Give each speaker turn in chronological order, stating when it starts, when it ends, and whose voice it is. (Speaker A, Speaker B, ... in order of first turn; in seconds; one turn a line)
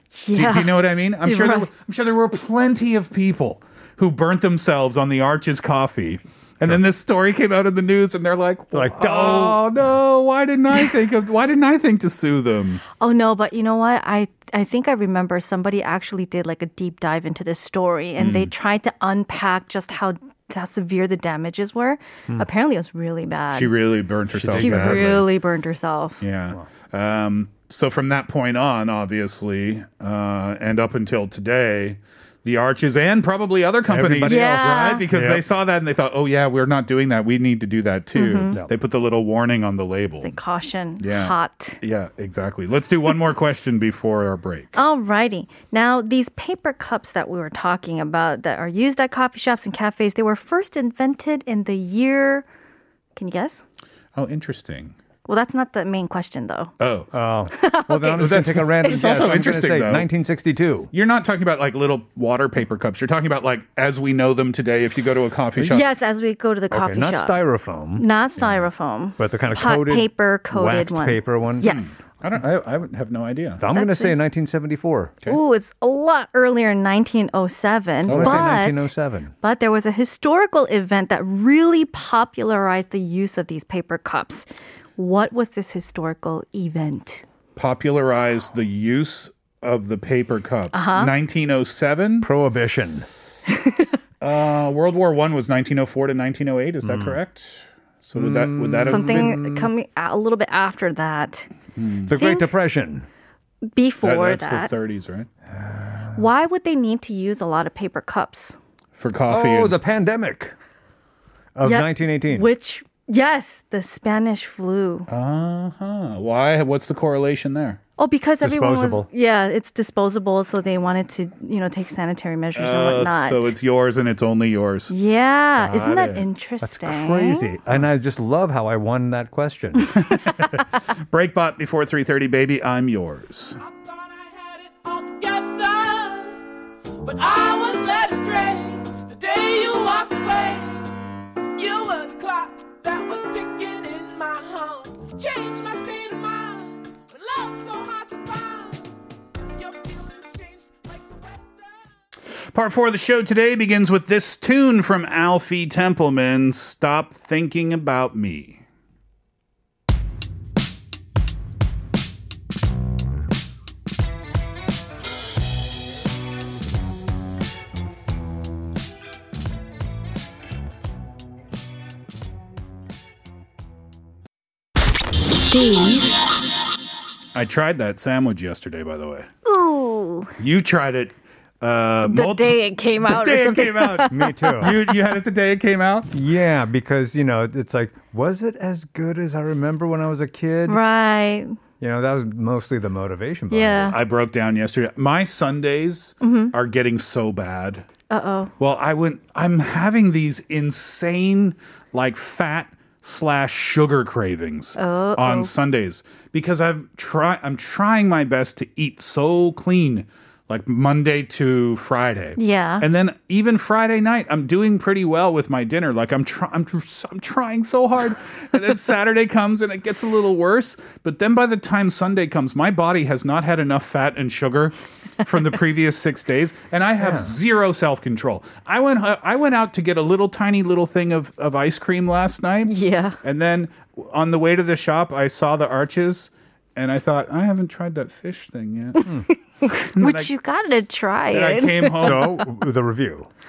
Speaker A: 0.1-1.7
Speaker B: 0.3-12.8
Speaker C: 8.7-9.6
Speaker A: 13.0-23.7
Speaker B: 18.2-18.5
Speaker B: 23.5-25.2
Speaker C: 24.3-25.2
Speaker A: 24.6-26.2
Speaker B: 26.2-40.3
Speaker C: 33.9-35.4
Speaker A: 34.3-35.0
Speaker A: 38.1-38.5
Speaker A: 40.2-41.8
Speaker B: 41.0-44.8
Speaker A: 44.8-52.5
Speaker A: 53.2-53.6
Speaker B: 54.1-55.0
Speaker A: 55.3-56.7
Speaker B: 56.8-57.1
Speaker C: 57.1-60.9
Speaker A: 57.5-59.1
Speaker B: 58.2-60.1
Speaker B: 60.9-65.9
Speaker C: 65.6-65.9
Speaker A: 65.7-67.4
Speaker C: 66.7-68.1
Speaker A: 68.0-72.0
Speaker C: 69.2-71.7
Speaker B: 71.6-73.6
Speaker C: 73.6-75.2
Speaker A: 73.7-74.2
Speaker A: 75.2-87.2
Speaker B: 78.1-78.6
Speaker C: 78.1-79.3
Speaker B: 87.6-92.3
Speaker A: 90.7-91.1
Speaker C: 92.2-93.1
Speaker A: 93.5-93.9
Speaker B: 94.2-99.3
Speaker C: 96.8-97.2
Speaker C: 98.2-99.7
Speaker A: 98.9-101.5
Speaker B: 101.8-102.1
Speaker C: 102.1-103.1
Speaker A: 102.1-102.5
Speaker A: 103.7-104.7
Speaker B: 104.0-105.3
Speaker C: 105.5-106.2
Speaker A: 106.2-108.6
Speaker B: 109.0-109.8
Speaker C: 109.3-110.5
Speaker C: 111.6-112.5
Speaker A: 111.6-115.1
Speaker B: 115.1-117.8
Speaker A: 118.0-123.5
Speaker C: 118.4-119.1
Speaker B: 122.5-124.9
Speaker A: 124.9-127.5
Speaker B: 125.6-126.3
Speaker C: 126.6-129.9
Speaker B: 130.0-133.6
Speaker D: 133.6-136.4
Speaker D: 137.0-140.9
Speaker D: 141.6-148.9
Speaker D: 149.5-151.9
Speaker B: 152.5-158.6
Speaker A: 175.2-176.2
Speaker B: 177.3-179.3
Speaker A: 179.4-180.3
Speaker B: 180.4-186.2
Speaker A: 182.1-184.8
Speaker C: 184.1-184.7
Speaker C: 186.1-190.8
Speaker A: 190.7-191.6
Speaker C: 191.8-193.9
Speaker A: 193.5-194.0
Speaker B: 193.8-197.9
Speaker A: 196.2-196.5
Speaker A: 198.1-198.5
Speaker B: 198.6-239.1
Speaker A: 204.8-205.5
Speaker A: 212.4-212.9
Speaker C: 227.0-227.3
Speaker A: 232.7-233.2
Speaker A: 239.3-242.2
Speaker B: 239.8-240.3
Speaker B: 241.3-242.4
Speaker C: 242.0-243.3